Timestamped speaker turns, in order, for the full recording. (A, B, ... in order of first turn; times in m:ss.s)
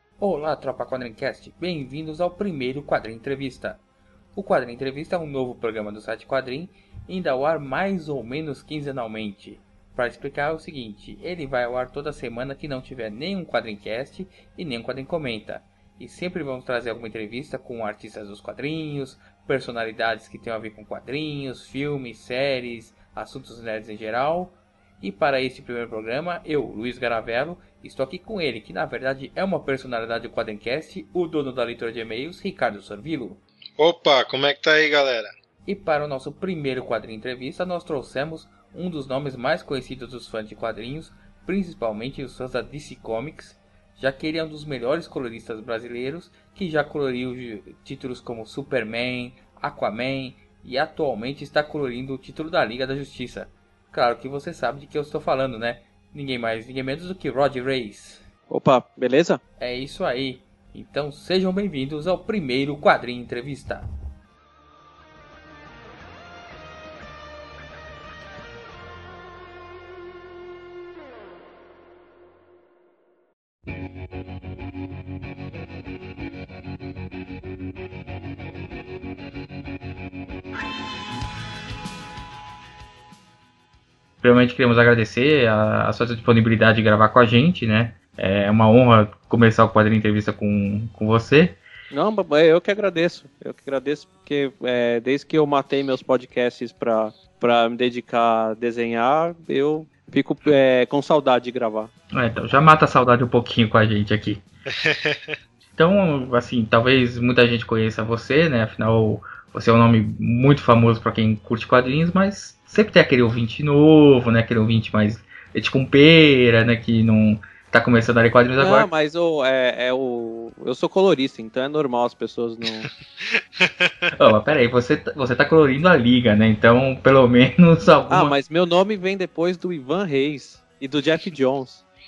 0:00.2-0:03.8 A
0:04.3-0:33.4 A
0:33.8-0:35.3 B
0:35.6-0:58.2 A
0:58.5-0:59.4 C
0:59.6-1:03.9 A
1:24.2-1:31.6 A
1:31.9-1:41.9 C
1:42.1-1:44.4 A
1:44.7-1:45.4 B
1:45.8-1:58.9 A
1:58.6-2:02.9 C
2:03.2-2:04.1 B
2:04.2-2:08.3 A
2:08.1-2:11.8 C